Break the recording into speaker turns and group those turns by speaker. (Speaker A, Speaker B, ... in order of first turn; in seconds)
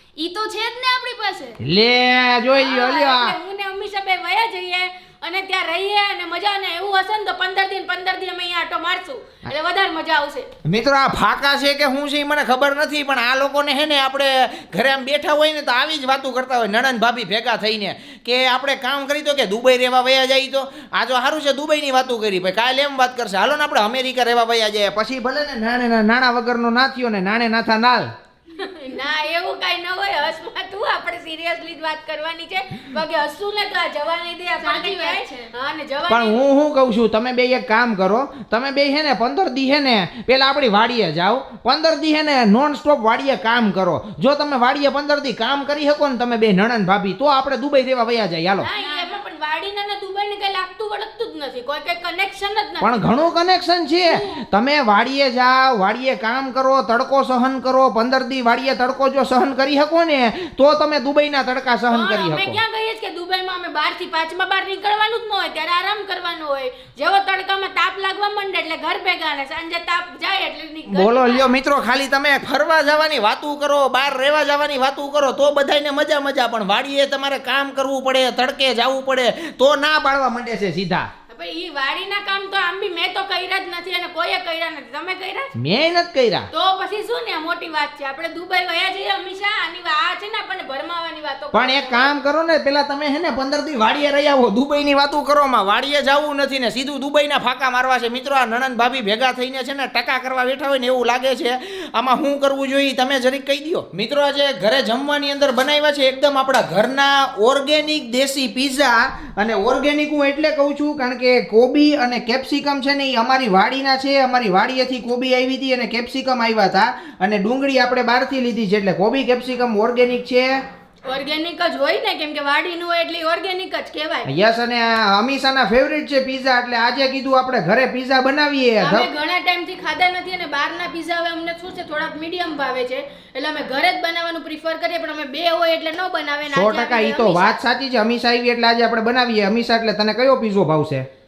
Speaker A: 0.2-1.6, 34.6-35.5, 48.8-49.2
Speaker B: 1.6-3.4, 10.7-28.1, 36.1-48.7, 52.8-62.6, 70.9-81.1, 85.5-86.5, 91.5-120.6, 124.3-129.1, 136.5-141.1
Speaker C: 2.5-10.5, 28.6-36.5, 48.6-53.3, 54.0-54.4, 61.9-71.5, 81.3-85.5, 86.5-92.1, 121.1-124.3, 128.8-137.6